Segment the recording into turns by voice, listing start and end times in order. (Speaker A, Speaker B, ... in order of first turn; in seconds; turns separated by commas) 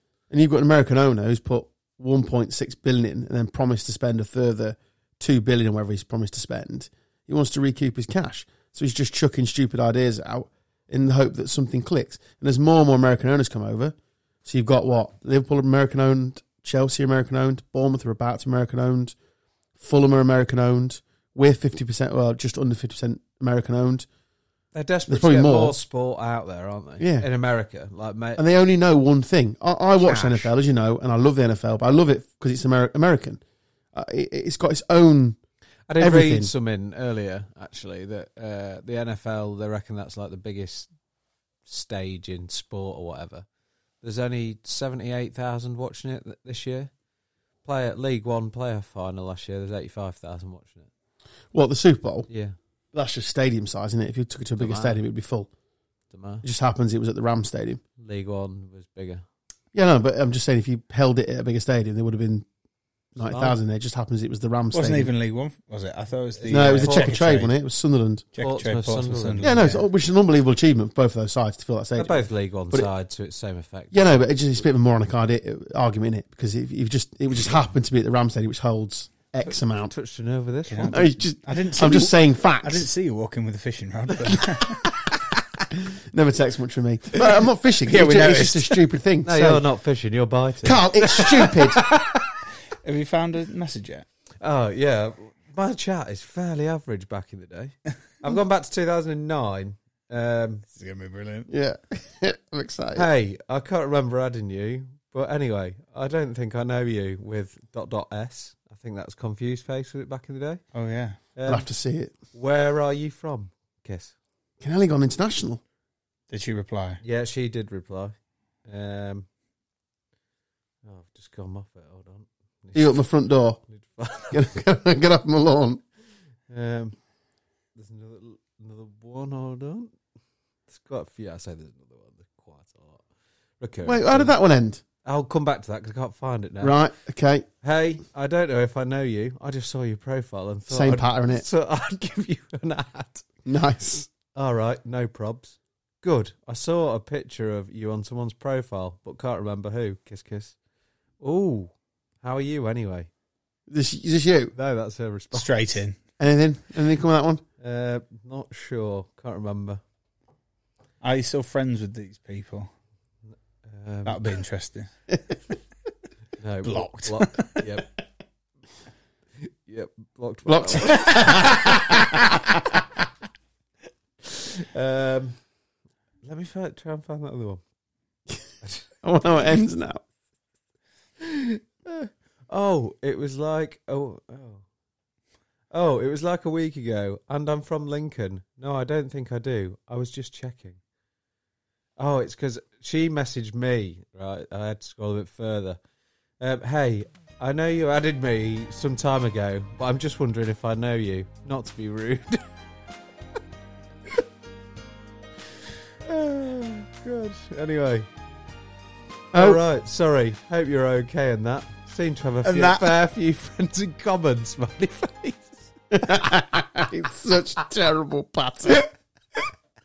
Speaker A: 0.3-19.1, Speaker A: 19.8-24.1, Speaker B: 24.7-28.4, Speaker A: 25.1-25.8, Speaker A: 27.0-27.3, Speaker A: 28.4-33.4, Speaker B: 30.0-30.5, Speaker A: 33.9-35.4, Speaker B: 35.9-40.9, Speaker A: 36.0-36.5, Speaker B: 41.6-43.5, Speaker B: 44.0-46.9, Speaker B: 47.6-50.9, Speaker A: 51.5-52.3, Speaker B: 52.3-52.5, Speaker A: 52.9-55.5, Speaker B: 54.6-55.0, Speaker B: 56.1-56.4, Speaker A: 56.4-57.8, Speaker B: 58.0-59.2, Speaker A: 59.7-62.5, Speaker A: 63.1-65.1, Speaker B: 63.2-63.5, Speaker C: 64.7-67.5, Speaker A: 66.5-68.2, Speaker B: 66.5-67.2, Speaker C: 68.3-69.8, Speaker B: 68.4-69.6, Speaker A: 69.4-72.9, Speaker B: 72.0-74.1, Speaker A: 73.9-79.9, Speaker B: 79.8-81.0, Speaker C: 80.7-84.8, Speaker A: 80.9-82.9, Speaker A: 85.7-89.6, Speaker C: 87.8-88.8, Speaker B: 89.2-92.2, Speaker A: 90.6-91.8, Speaker C: 92.8-94.0, Speaker B: 94.4-100.6, Speaker C: 100.7-101.5, Speaker A: 101.5-103.1, Speaker B: 102.9-110.6, Speaker C: 110.7-111.2, Speaker B: 111.3-111.7, Speaker A: 111.5-112.1, Speaker B: 112.3-114.1, Speaker A: 114.6-115.6, Speaker C: 116.3-117.0, Speaker B: 117.0-118.1, Speaker B: 118.7-119.2, Speaker B: 120.8-123.0, Speaker A: 122.7-123.6, Speaker B: 123.7-124.4, Speaker A: 124.3-125.8, Speaker B: 126.5-127.0, Speaker B: 127.8-129.9, Speaker B: 130.7-133.0, Speaker B: 133.6-134.3, Speaker A: 133.8-134.8, Speaker B: 135.0-136.8, Speaker A: 136.6-137.4, Speaker B: 137.6-143.3, Speaker A: 140.7-141.4, Speaker A: 143.4-144.1, Speaker B: 144.3-150.5, Speaker B: 151.2-153.1, Speaker A: 153.7-154.5, Speaker B: 154.5-155.5, Speaker C: 155.3-155.9, Speaker A: 156.2-157.4, Speaker B: 157.6-159.8, Speaker C: 161.0-162.7, Speaker B: 163.6-164.2, Speaker C: 164.0-164.9, Speaker B: 166.4-167.9, Speaker C: 166.6-167.7, Speaker B: 169.4-172.0, Speaker A: 170.4-172.2, Speaker B: 174.2-175.4, Speaker B: 176.2-177.6, Speaker A: 179.0-180.0, Speaker B: 181.2-184.6, Speaker B: 185.7-190.8, Speaker B: 192.0-195.8, Speaker B: 196.4-202.4, Speaker B: 206.0-208.1, Speaker A: 209.3-209.6, Speaker B: 209.3-215.7, Speaker C: 212.4-212.9, Speaker A: 215.9-218.9